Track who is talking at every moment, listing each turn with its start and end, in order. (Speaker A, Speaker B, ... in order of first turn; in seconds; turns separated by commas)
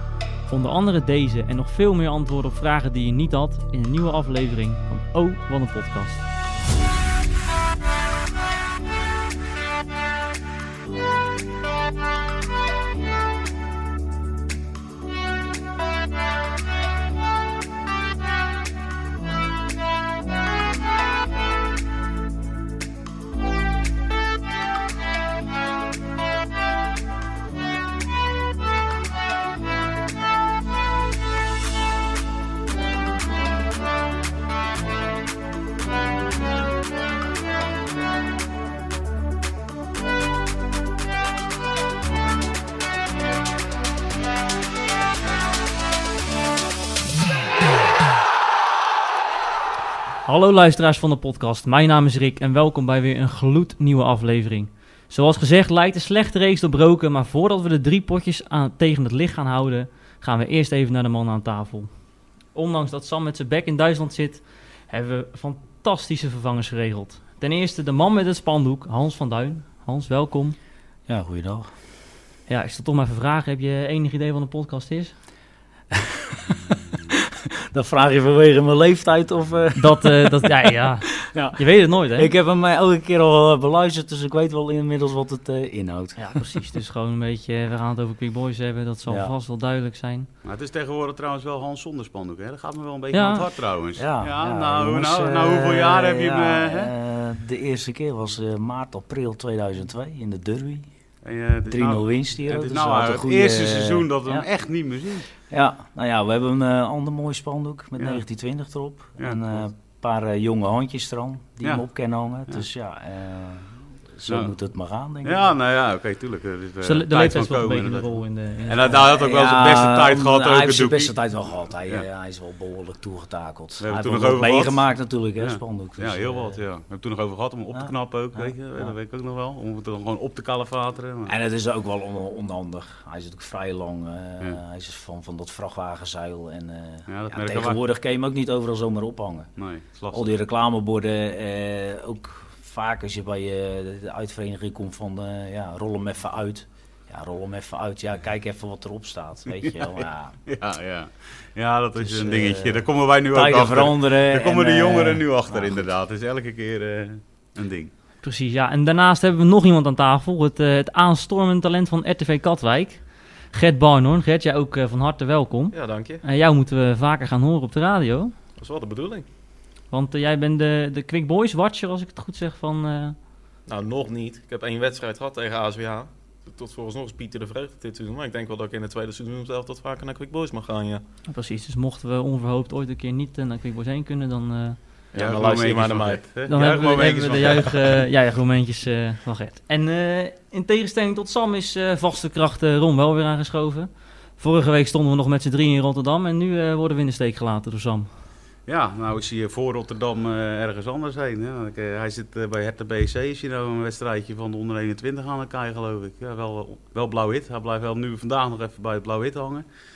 Speaker A: 0.5-6.2, Speaker A: 50.2-61.9, Speaker A: 62.5-70.5, Speaker B: 71.1-71.7, Speaker A: 72.5-75.1, Speaker B: 75.9-86.6, Speaker A: 79.8-82.3, Speaker A: 86.2-90.3, Speaker B: 89.1-89.3, Speaker C: 90.4-96.9, Speaker A: 93.1-93.5, Speaker B: 94.0-100.9, Speaker C: 101.2-105.3, Speaker B: 101.7-104.5, Speaker B: 105.5-115.5, Speaker C: 109.2-109.6, Speaker C: 114.3-114.5, Speaker C: 115.2-118.1, Speaker A: 116.8-119.0, Speaker C: 118.7-121.1, Speaker B: 118.9-126.6, Speaker C: 123.8-124.8, Speaker C: 125.4-131.3, Speaker B: 127.7-128.9, Speaker B: 131.2-139.5, Speaker C: 137.1-137.8, Speaker C: 139.6-140.3, Speaker B: 140.1-150.4, Speaker C: 149.6-157.9, Speaker B: 152.0-155.9, Speaker A: 158.2-168.3, Speaker D: 165.7-166.2, Speaker D: 168.6-169.2, Speaker A: 169.9-173.2, Speaker D: 173.7-181.0, Speaker A: 181.3-184.8, Speaker D: 185.1-186.2, Speaker C: 185.1-188.0, Speaker A: 186.5-198.1, Speaker C: 198.7-209.6